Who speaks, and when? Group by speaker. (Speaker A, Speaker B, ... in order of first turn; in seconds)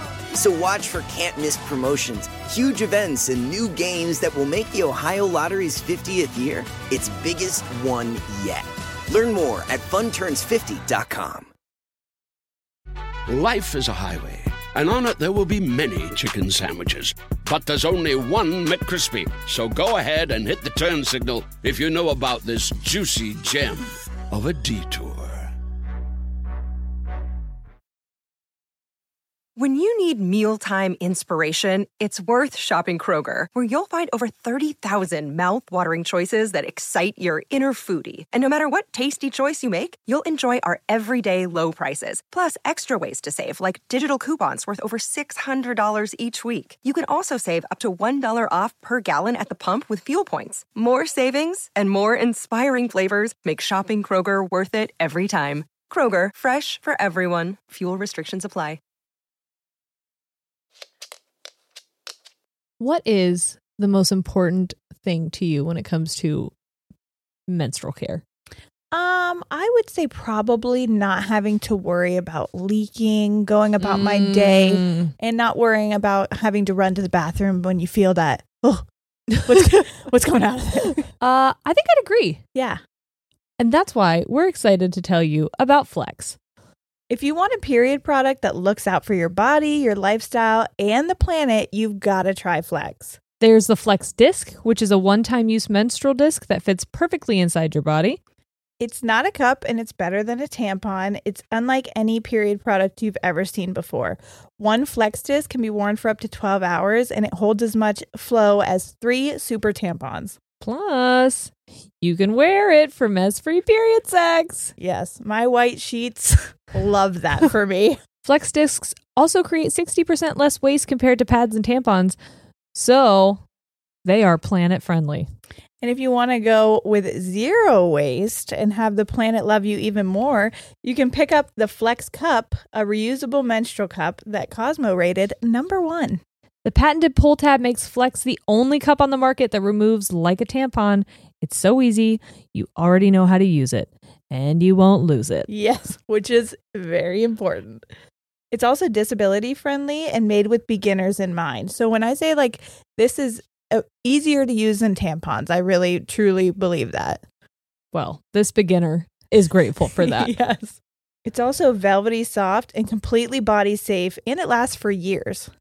Speaker A: 0.3-11.5
Speaker B: 13.3-25.5
Speaker C: 29.6-58.8
Speaker D: 62.8-66.5, 67.5-68.2, 73.8-75.1, 81.2-82.4, 83.6-86.4, 93.4-98.2, 110.6-114.7, 118.2-122.2, 122.7-123.4, 124.0-125.3, 136.6-145.5, 157.9-160.3
Speaker E: 68.9-78.9, 79.4-81.1, 82.5-82.8, 87.1-93.2, 98.8-110.4, 114.8-118.0, 125.8-136.2, 145.5-147.8, 148.5-157.2, 159.9-165.5